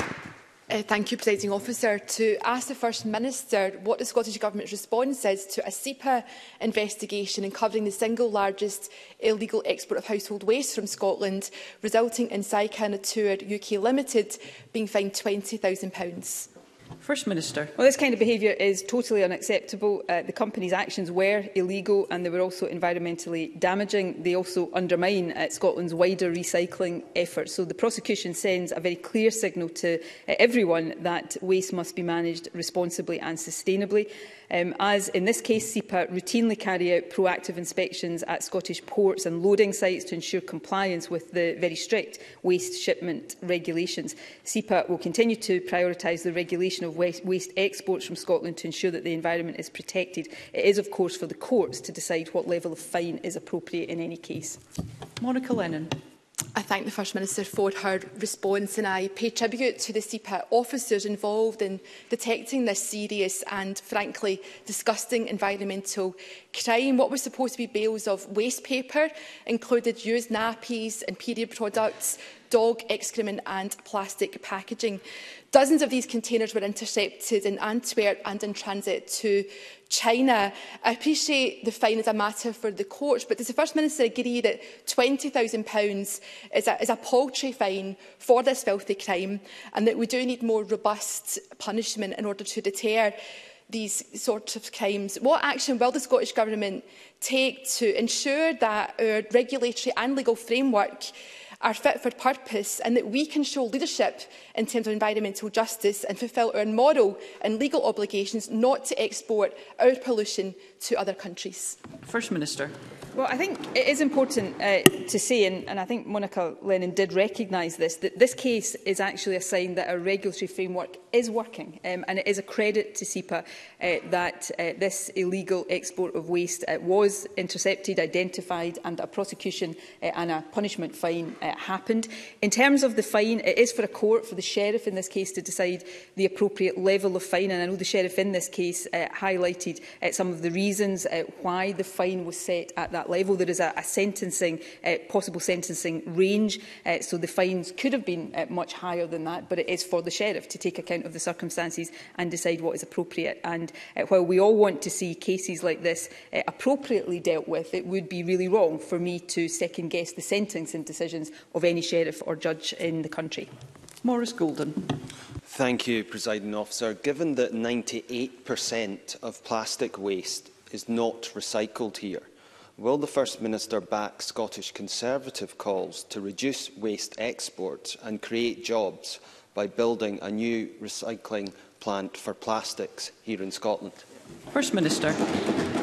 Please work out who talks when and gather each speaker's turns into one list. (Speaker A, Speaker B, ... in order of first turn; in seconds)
Speaker A: 0.7-16.5, 56.5-93.2, 93.7-111.8
Speaker B: 17.0-17.7, 55.2-56.0, 112.0-112.7, 164.0-165.0, 184.5-185.2
Speaker C: 17.8-54.6, 113.2-163.5
Speaker D: 165.4-184.0